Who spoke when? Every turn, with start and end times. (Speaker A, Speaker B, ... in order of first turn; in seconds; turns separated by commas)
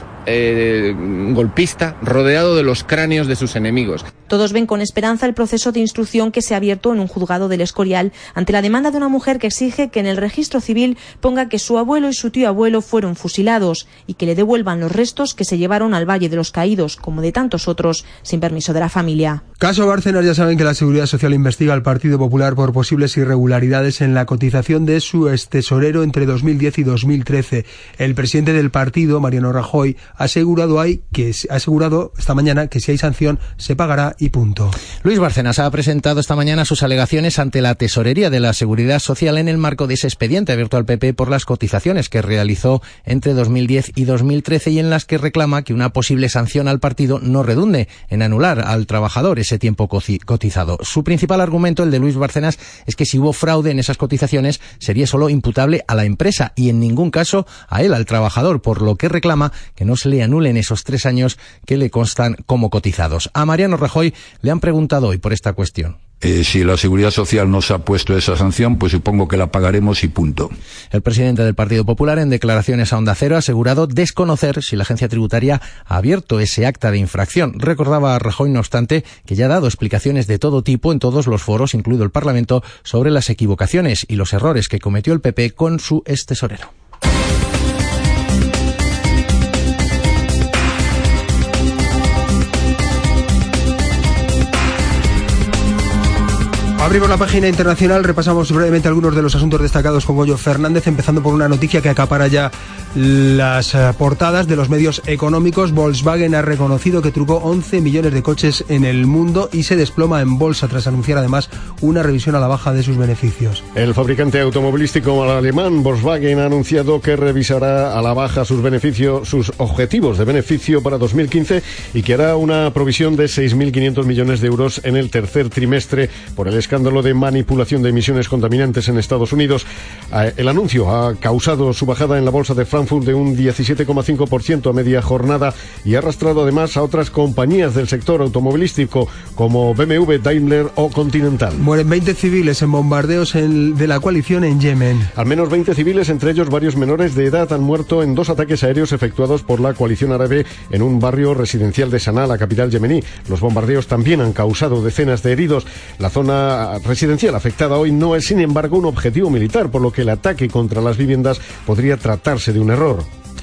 Speaker A: 0.4-4.0, Speaker B: 4.3-19.4, Speaker C: 19.6-34.8, Speaker D: 35.0-66.0, Speaker E: 66.2-70.5, Speaker D: 70.9-86.7, Speaker C: 96.8-113.6, Speaker F: 113.8-141.6, Speaker C: 141.6-145.1, Speaker F: 145.2-163.1